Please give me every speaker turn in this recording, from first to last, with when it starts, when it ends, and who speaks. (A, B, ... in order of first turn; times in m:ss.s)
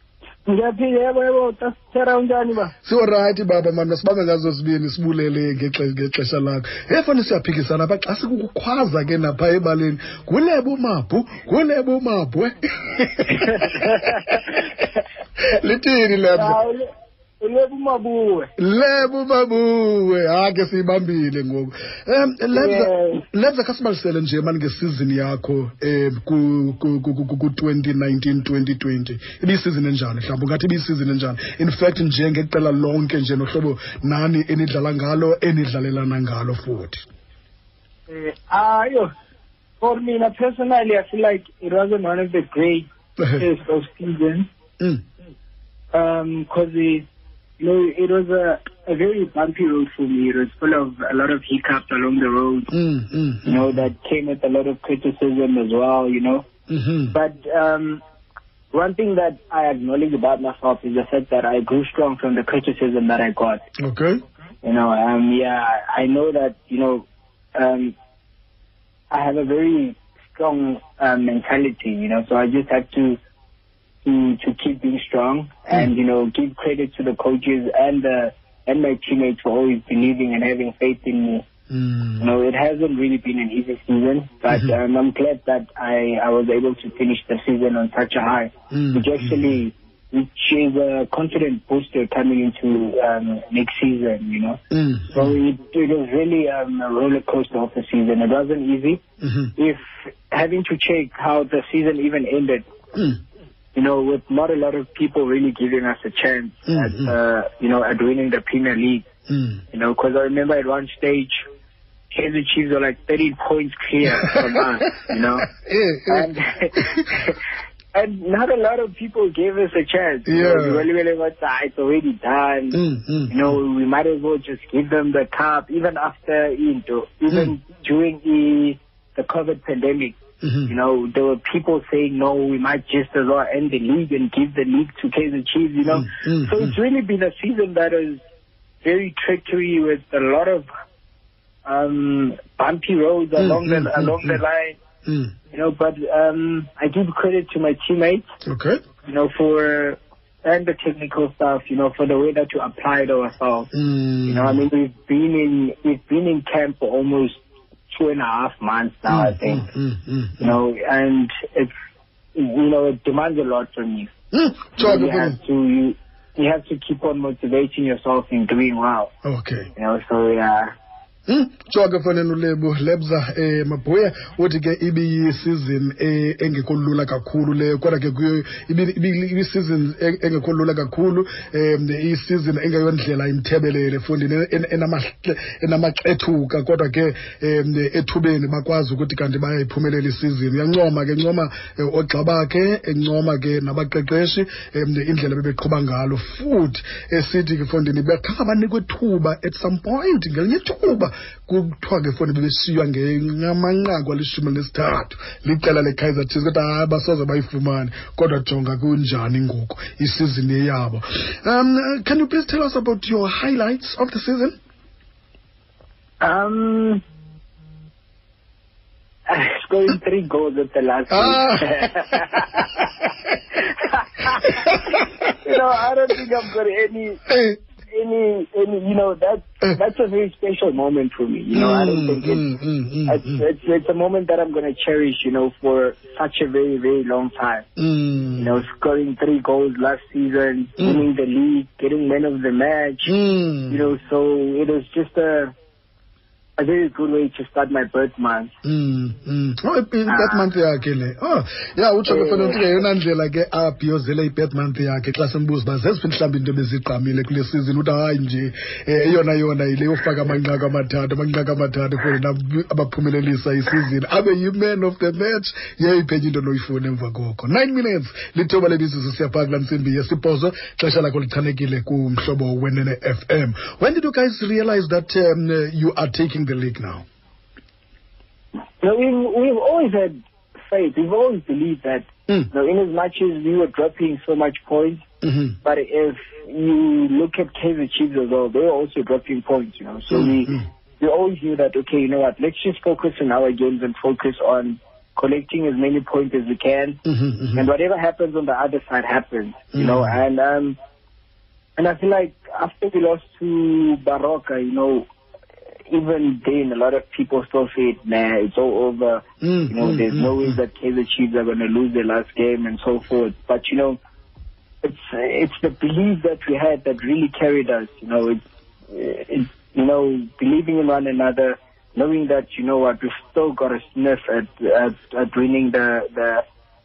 0:00.4-0:02.7 A
0:02.8-0:14.7 B
0:13.6-0:14.1 A
0:15.4-0:16.6 B
0:16.3-0:16.8 A
0:17.4-0:18.5 A
0:18.6-0:37.0 B
0:22.5-0:23.2 A
0:38.1-0:39.1 A
0:39.8-0:44.5 A
0:43.2-0:43.4 B
0:45.9-0:47.1 A
0:47.6-0:52.7 A
0:52.7-0:53.8 B
0:53.4-0:56.4 A
0:56.7-0:57.2 B
0:57.1-0:58.0 A
0:58.7-1:03.6 A
1:03.8-1:04.2 B
1:04.6-1:08.0 A
1:09.1-1:13.2 A
1:14.0-1:21.4 A
1:21.7-1:22.3 B
1:22.2-1:34.6 A
1:28.7-1:29.6 B
1:34.7-1:35.4 B
1:35.1-1:39.0 A
1:39.2-1:39.5 B
1:39.6-1:42.6 A
1:43.7-1:49.0 A
1:46.7-1:47.1 B
1:49.3-1:49.6 B
1:49.7-1:51.4 A
1:52.1-1:55.5 A
1:54.1-1:57.2 B
1:56.1-1:57.4 A
1:57.9-2:10.2 A
2:00.3-2:00.9 B
2:02.7-2:03.6 B
2:10.4-2:10.7 B
2:10.7-2:18.2 A
2:15.9-2:16.8 B
2:18.8-2:20.7 A
2:21.6-2:24.8 A
2:23.4-2:24.4 B
2:25.0-2:25.3 B
2:25.5-2:28.2 A
2:28.4-2:28.8 B
2:29.0-2:33.7 A
2:33.7-2:34.6 B
2:34.2-2:37.4 A
2:37.9-2:39.6 A
2:39.1-2:40.6 B
2:40.4-2:41.7 A
2:42.3-2:44.1 A
2:44.3-2:45.4 B
2:44.8-2:49.1 A
2:49.2-2:49.7 B
2:49.8-2:50.7 A
2:51.3-3:34.6 B
3:36.2-3:37.0 A
3:39.3-3:42.9 A
3:41.1-3:43.1 B
3:43.5-3:44.7 A
3:44.6-3:45.1 B
3:45.4-3:47.2 A
3:47.3-3:47.6 B
3:47.9-3:52.4 A
3:51.5-3:53.4 B
3:53.1-3:57.7 A
3:57.8-3:58.6 B
3:58.4-4:03.1 A
4:00.8-4:01.0 B
4:03.0-4:03.9 B
4:03.7-4:05.5 A
4:06.6-4:08.5 A
4:08.6-4:37.0 B
4:10.1-4:10.4 A
4:12.1-4:12.6 A
4:38.8-4:45.0 A
4:45.2-4:45.6 B
4:45.6-4:57.0 A
4:50.1-4:50.6 B
4:57.0-4:57.6 B
4:57.6-5:00.8 A
4:59.7-5:00.2 B
5:01.8-5:05.1 A
5:05.9-5:14.0 A
5:09.4-5:10.6 B
5:14.8-5:26.4 A